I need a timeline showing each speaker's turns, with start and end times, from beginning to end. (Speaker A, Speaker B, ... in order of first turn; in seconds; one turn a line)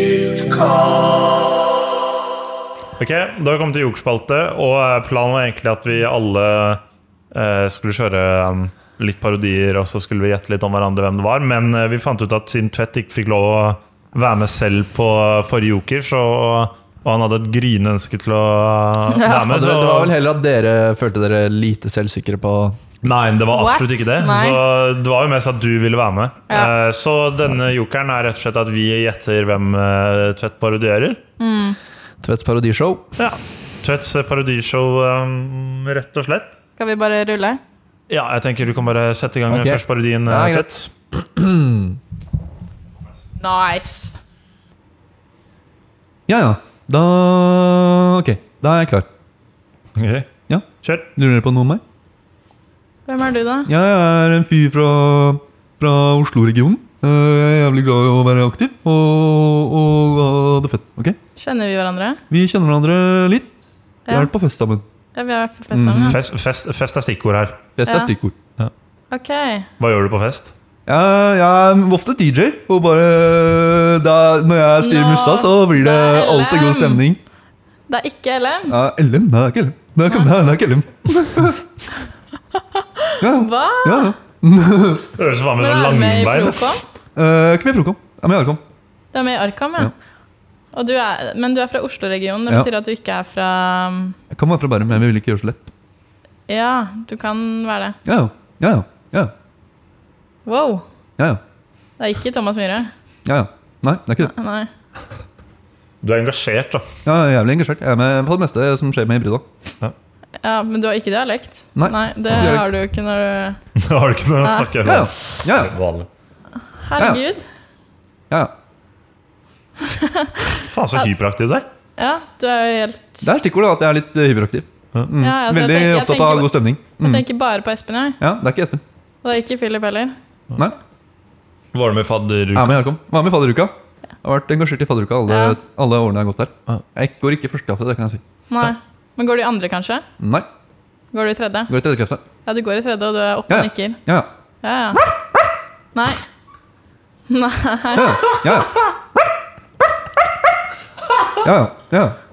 Speaker A: 3.0-6.8
Speaker A: 7.3-20.1
Speaker B: 19.1-19.5
Speaker C: 19.4-22.8
Speaker A: 23.0-31.2
Speaker B: 23.5-24.6
Speaker B: 31.4-31.8
Speaker C: 32.2-33.1
Speaker A: 33.2-36.6
Speaker B: 36.8-37.6
Speaker A: 38.1-40.9
Speaker C: 39.5-42.0
Speaker B: 43.4-44.1
Speaker C: 46.3-49.1
Speaker A: 50.0-51.1
Speaker C: 50.5-51.8
Speaker B: 53.1-53.7
Speaker C: 53.6-61.2
Speaker B: 61.4-62.2
Speaker C: 62.3-64.8
Speaker B: 64.1-64.3
Speaker B: 65.1-66.2
Speaker C: 65.7-66.2
Speaker A: 66.0-67.7
Speaker C: 67.8-68.3
Speaker B: 67.9-68.1
Speaker B: 69.1-69.7
Speaker A: 69.8-70.5
Speaker C: 70.9-77.2
Speaker B: 74.8-77.0
Speaker B: 77.9-78.8
Speaker C: 78.7-81.6
Speaker B: 82.8-84.1
Speaker C: 83.2-85.1
Speaker A: 85.2-86.7
Speaker B: 85.6-86.8
Speaker C: 87.2-88.6
Speaker B: 89.1-89.9
Speaker B: 90.7-94.2
Speaker C: 94.3-95.6
Speaker B: 96.5-98.0
Speaker C: 98.1-99.3
Speaker B: 100.5-100.8
Speaker B: 102.0-102.9
Speaker C: 103.2-104.3
Speaker B: 104.2-104.7
Speaker A: 106.0-106.8
Speaker C: 107.0-109.5
Speaker B: 110.4-113.6
Speaker C: 111.8-112.7
Speaker A: 113.8-116.1
Speaker B: 114.4-115.0
Speaker C: 114.8-115.7
Speaker B: 116.8-117.4
Speaker B: 119.8-121.1
Speaker A: 120.7-121.7
Speaker B: 122.0-123.3
Speaker C: 123.2-127.3
Speaker B: 125.2-128.2
Speaker C: 128.2-128.8
Speaker B: 129.2-130.1
Speaker A: 131.7-132.8
Speaker C: 132.5-138.2
Speaker B: 135.3-135.6
Speaker B: 138.5-140.1
Speaker C: 140.2-140.5
Speaker B: 141.1-141.7
Speaker C: 141.7-142.2
Speaker B: 142.5-144.0
Speaker C: 143.5-144.3
Speaker B: 144.6-145.1
Speaker C: 144.9-145.5
Speaker B: 145.9-146.2
Speaker B: 147.3-148.8
Speaker C: 147.9-149.3
Speaker C: 149.9-150.3
Speaker C: 151.4-152.2